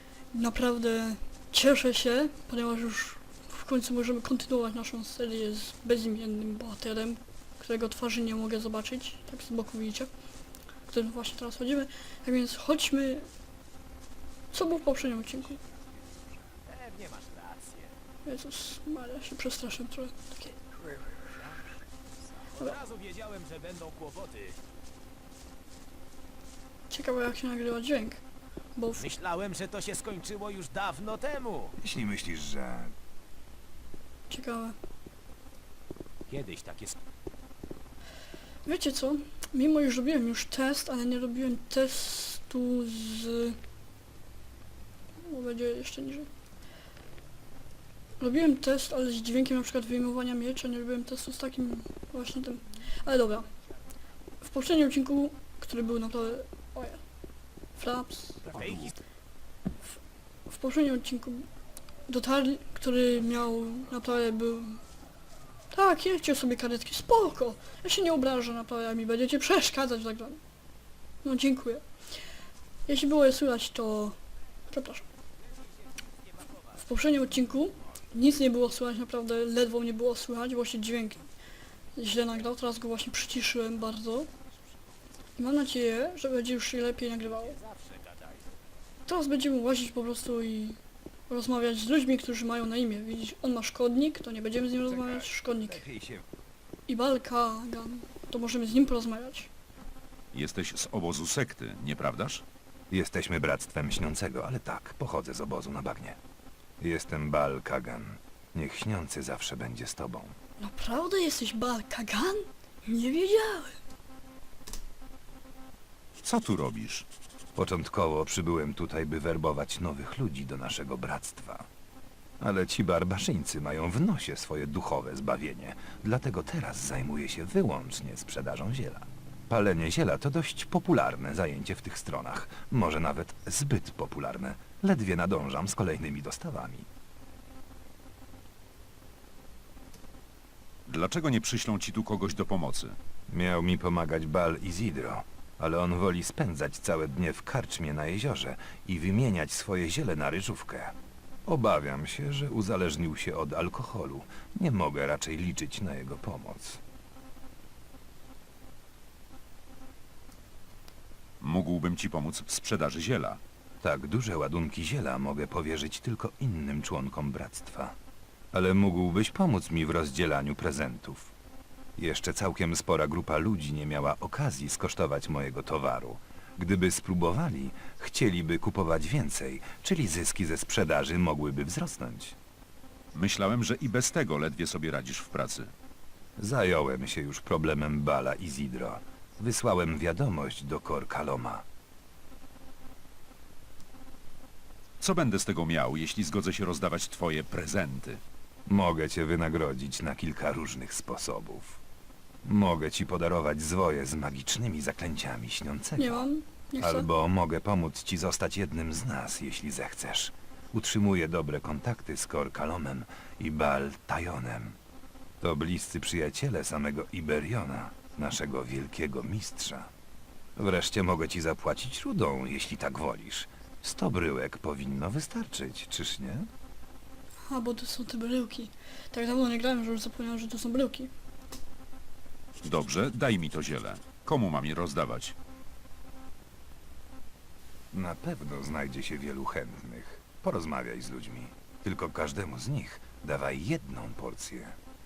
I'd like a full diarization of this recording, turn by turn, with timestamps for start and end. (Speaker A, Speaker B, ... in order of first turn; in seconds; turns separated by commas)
Speaker A: 0.3-10.1, Speaker A: 10.9-13.3, Speaker A: 14.5-15.6, Speaker B: 15.1-16.2, Speaker C: 16.7-17.9, Speaker A: 18.2-20.6, Speaker C: 21.3-21.6, Speaker C: 22.6-24.6, Speaker A: 26.9-28.2, Speaker A: 28.8-29.1, Speaker C: 29.0-31.8, Speaker B: 31.8-32.9, Speaker A: 34.3-34.8, Speaker C: 36.3-37.0, Speaker A: 38.6-43.6, Speaker A: 45.2-46.3, Speaker A: 48.2-53.5, Speaker A: 54.4-57.0, Speaker A: 57.8-58.4, Speaker C: 58.5-58.9, Speaker A: 60.5-61.5, Speaker A: 62.1-64.8, Speaker A: 65.7-70.4, Speaker A: 71.2-71.8, Speaker A: 72.9-74.2, Speaker A: 74.7-75.0, Speaker A: 76.8-81.2, Speaker A: 82.0-84.3, Speaker A: 85.4-87.6, Speaker C: 87.3-88.5, Speaker A: 89.1-90.8, Speaker A: 91.3-95.8, Speaker B: 94.9-96.2, Speaker A: 96.9-99.5, Speaker D: 100.3-102.4, Speaker B: 102.9-106.2, Speaker B: 106.8-110.4, Speaker A: 110.6-113.8, Speaker D: 116.2-117.1, Speaker B: 117.6-121.7, Speaker B: 122.4-136.9, Speaker D: 140.9-143.0, Speaker B: 143.3-150.9, Speaker B: 151.5-156.8, Speaker D: 161.4-163.4, Speaker B: 163.8-168.0, Speaker B: 168.5-171.3, Speaker B: 172.0-182.4, Speaker D: 183.2-185.7, Speaker B: 186.4-191.6, Speaker D: 195.0-198.2, Speaker B: 198.7-201.8, Speaker B: 202.4-206.3, Speaker A: 206.0-207.1, Speaker B: 206.8-214.8, Speaker B: 215.4-219.9, Speaker B: 220.6-226.5, Speaker A: 227.5-231.1, Speaker D: 232.6-235.3, Speaker B: 237.9-244.8